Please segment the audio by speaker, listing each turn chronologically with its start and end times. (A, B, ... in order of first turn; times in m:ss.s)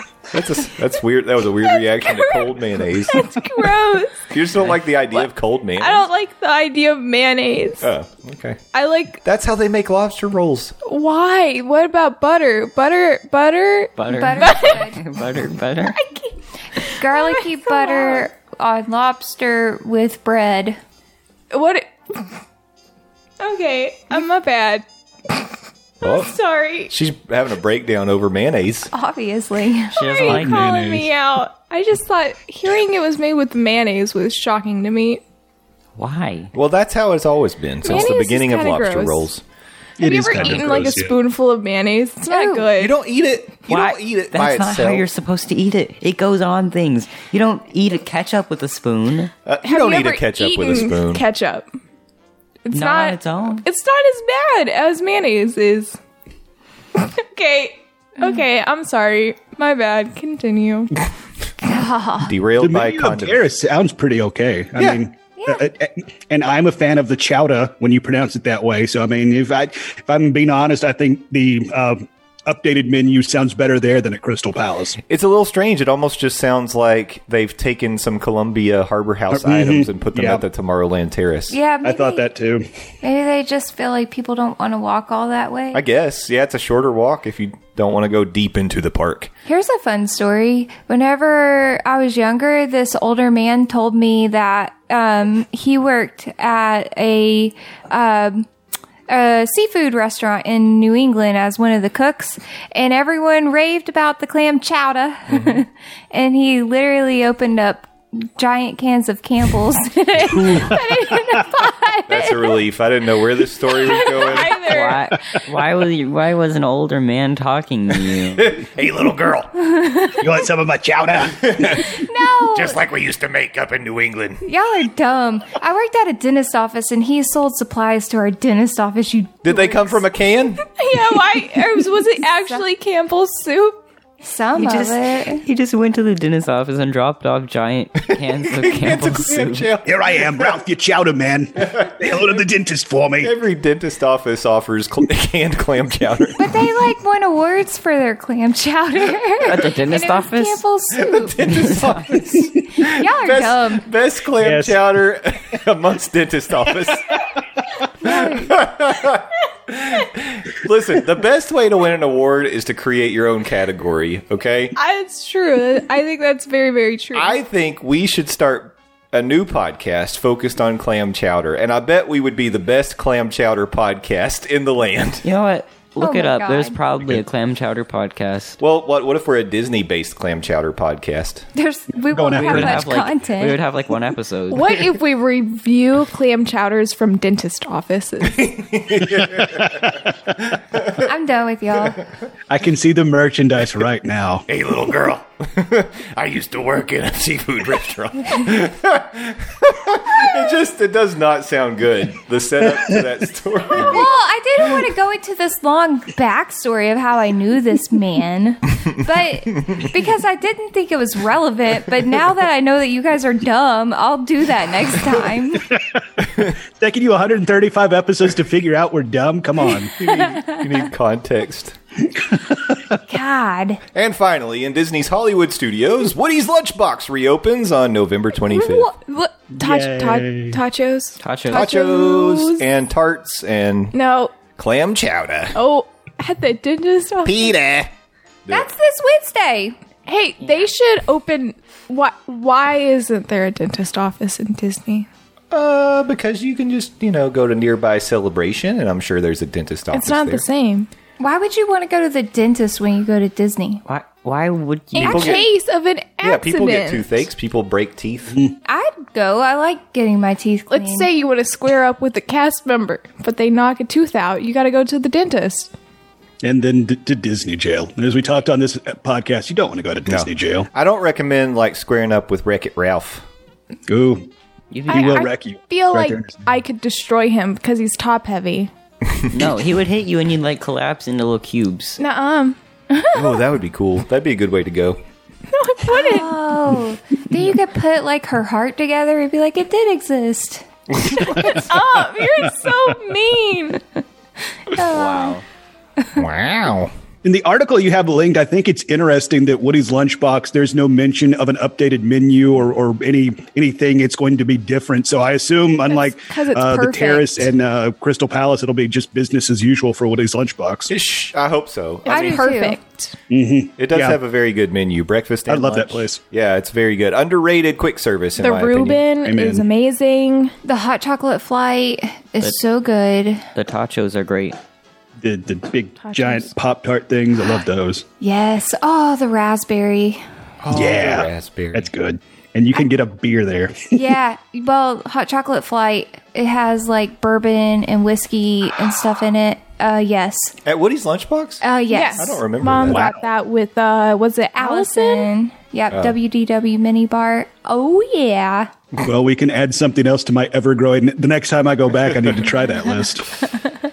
0:00.3-0:03.3 A
0:02.1-0:02.4 B
0:03.0-0:04.3 B
0:04.3-0:06.1 A
0:05.8-0:07.9 B
0:07.8-0:08.6 A
0:08.7-0:09.2 B
0:09.2-0:10.8 A
0:10.9-0:14.9 B
0:14.0-0:16.0 C
0:14.1-0:15.0 D
0:15.9-0:18.3 B
0:16.9-0:20.8 D
0:21.5-0:22.3 B
0:23.4-0:25.5 B
0:26.0-0:26.4 A
0:26.0-0:26.9 B
0:26.9-0:28.9 A
0:28.9-0:30.0 D
0:29.9-0:35.2 B
0:30.0-0:30.7 C
0:30.2-0:31.1 E
0:36.0-0:36.5 C
0:36.5-0:39.4 A
0:37.8-0:39.3 B
0:40.0-0:41.2 E
0:40.0-0:43.0 B
0:42.3-0:42.7 D
0:42.8-0:45.1 A
0:43.7-0:49.3 C
0:49.5-0:51.2 A
0:49.6-0:51.7 B
0:52.6-0:56.0 B
0:52.7-0:53.6 C
0:57.0-1:00.9 B
1:01.6-1:02.3 D
1:02.2-1:03.5 A
1:02.6-1:15.0 E
1:04.8-1:05.0 A
1:05.4-1:05.6 D
1:15.0-1:21.6 A
1:19.3-1:20.4 E
1:21.5-1:22.3 D
1:21.8-1:22.6 E
1:23.0-1:25.8 D
1:25.7-1:29.3 A
1:29.5-1:38.5 D
1:39.1-1:52.6 D
1:45.3-1:45.6 A
1:52.1-1:54.7 A
1:53.9-1:55.2 B
1:54.6-1:58.6 C
1:58.4-1:59.5 A
1:59.7-2:00.2 D
2:00.2-2:01.9 E
2:01.4-2:01.9 A
2:01.9-2:02.8 D
2:02.5-2:04.4 A
2:04.4-2:10.0 D
2:09.4-2:10.6 A
2:10.7-2:13.8 B
2:14.2-2:15.4 D
2:14.6-2:19.7 C
2:18.2-2:20.5 A
2:19.8-2:23.3 E
2:23.2-2:26.4 A
2:26.4-2:31.4 D
2:29.4-2:30.6 C
2:30.9-2:37.2 A
2:31.4-2:32.0 C
2:32.8-2:33.9 D
2:34.4-2:34.8 E
2:38.0-2:38.5 D
2:38.0-2:44.8 A
2:44.8-2:47.4 B
2:47.1-2:55.3 A
2:55.2-2:58.6 C
2:56.0-2:56.8 D
2:58.6-3:01.5 A
3:01.6-3:03.6 D
3:02.1-3:02.8 E
3:02.3-3:04.7 C
3:04.5-3:08.5 B
3:08.2-3:10.0 A
3:09.4-3:09.9 E
3:10.5-3:11.0 A
3:11.0-3:12.0 D
3:12.5-3:14.4 E
3:14.5-3:24.8 A
3:23.7-3:35.7 D
3:35.7-3:40.0 E
3:40.0-3:41.8 A
3:40.0-3:40.6 D
3:43.1-3:43.8 D
3:43.9-3:48.9 A
3:48.5-3:52.6 B
3:49.6-3:50.6 E
3:51.2-3:51.7 C
3:51.5-3:54.0 A
3:53.9-3:54.3 B
3:54.6-3:55.6 A
3:55.5-3:57.5 B
3:57.2-3:57.9 A
3:58.5-3:59.8 D
4:00.1-4:05.1 B
4:05.5-4:10.4 A
4:09.9-4:10.9 B
4:11.2-4:13.8 D
4:13.9-4:15.4 C
4:14.9-4:17.0 B
4:15.0-4:15.5 A
4:16.2-4:18.4 A
4:18.6-4:21.1 D
4:20.7-4:25.7 B
4:26.4-4:30.7 E
4:30.1-4:33.2 A
4:33.9-4:34.3 E
4:34.7-4:35.3 C
4:34.9-4:38.7 B
4:34.9-4:36.4 E
4:39.3-4:42.0 C
4:42.0-4:43.4 B
4:43.1-4:45.0 A
4:45.5-4:46.3 B
4:45.9-4:51.6 D
4:51.3-4:54.0 B
4:54.7-4:55.4 D
4:54.8-4:55.4 C
4:56.2-4:56.9 A
4:57.2-5:10.9 E
5:05.9-5:07.5 B
5:10.9-5:12.4 A
5:12.0-5:13.2 B
5:12.1-5:12.8 D
5:13.3-5:14.2 E
5:13.8-5:19.1 A
5:15.5-5:16.2 E
5:18.4-5:20.5 B
5:19.2-5:19.7 E
5:20.6-5:23.4 D
5:23.6-5:24.6 C
5:25.2-5:28.0 E
5:26.0-5:26.5 B
5:28.2-5:30.2 D
5:30.6-5:31.9 A
5:30.7-5:34.0 E
5:33.9-5:40.6 D
5:40.6-5:41.6 A
5:41.6-5:42.4 D
5:41.9-5:45.3 B
5:42.2-5:43.1 A
5:42.7-5:43.3 E
5:44.6-5:48.7 D
5:45.9-5:46.2 A
5:49.0-5:53.4 E